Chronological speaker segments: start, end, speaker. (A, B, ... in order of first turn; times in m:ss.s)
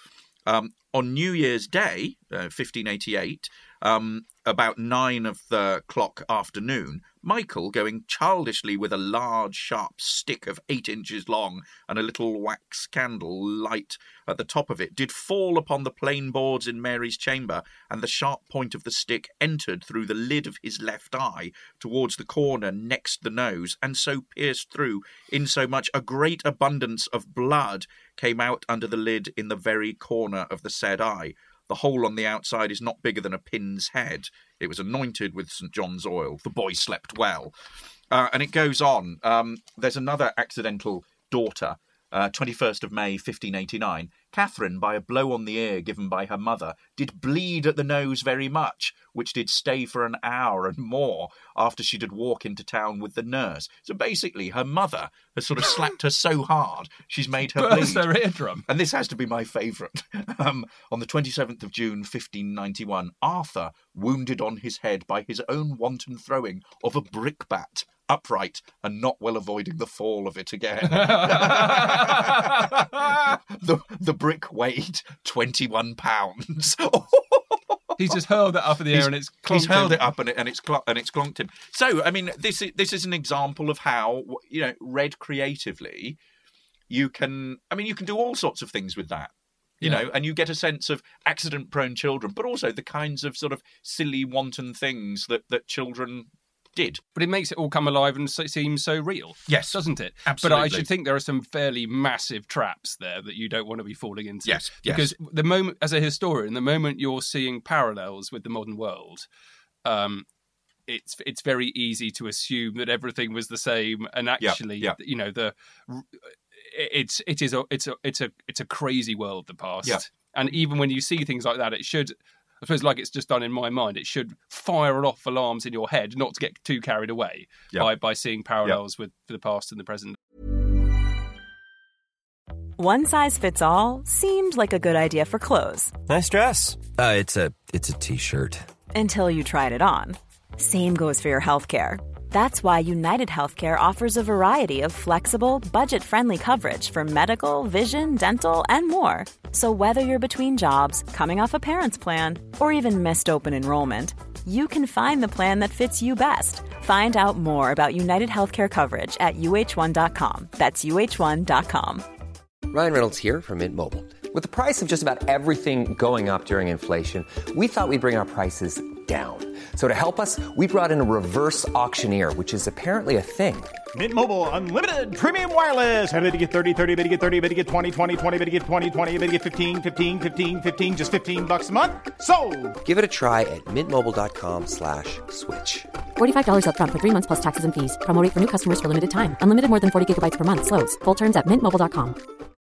0:00.4-0:37.5 A
0:38.1-0:58.1 A
0:57.6-0:58.6 B
0:58.7-1:18.2 A
1:10.9-1:13.1 B
1:18.0-1:20.0 B
1:18.9-1:26.2 A
1:26.9-1:37.0 A
1:37.2-1:49.3 B
1:39.5-1:40.9 A
1:44.4-1:45.1 A
1:49.8-1:50.2 B
1:50.9-2:10.2 B
1:54.4-1:55.0 A
2:12.8-2:15.9 C
2:16.0-2:18.7 D
2:18.9-2:42.0 C
2:42.7-2:53.7 E
2:53.9-3:02.8 F
3:02.8-3:05.9 E
3:06.2-3:12.2 G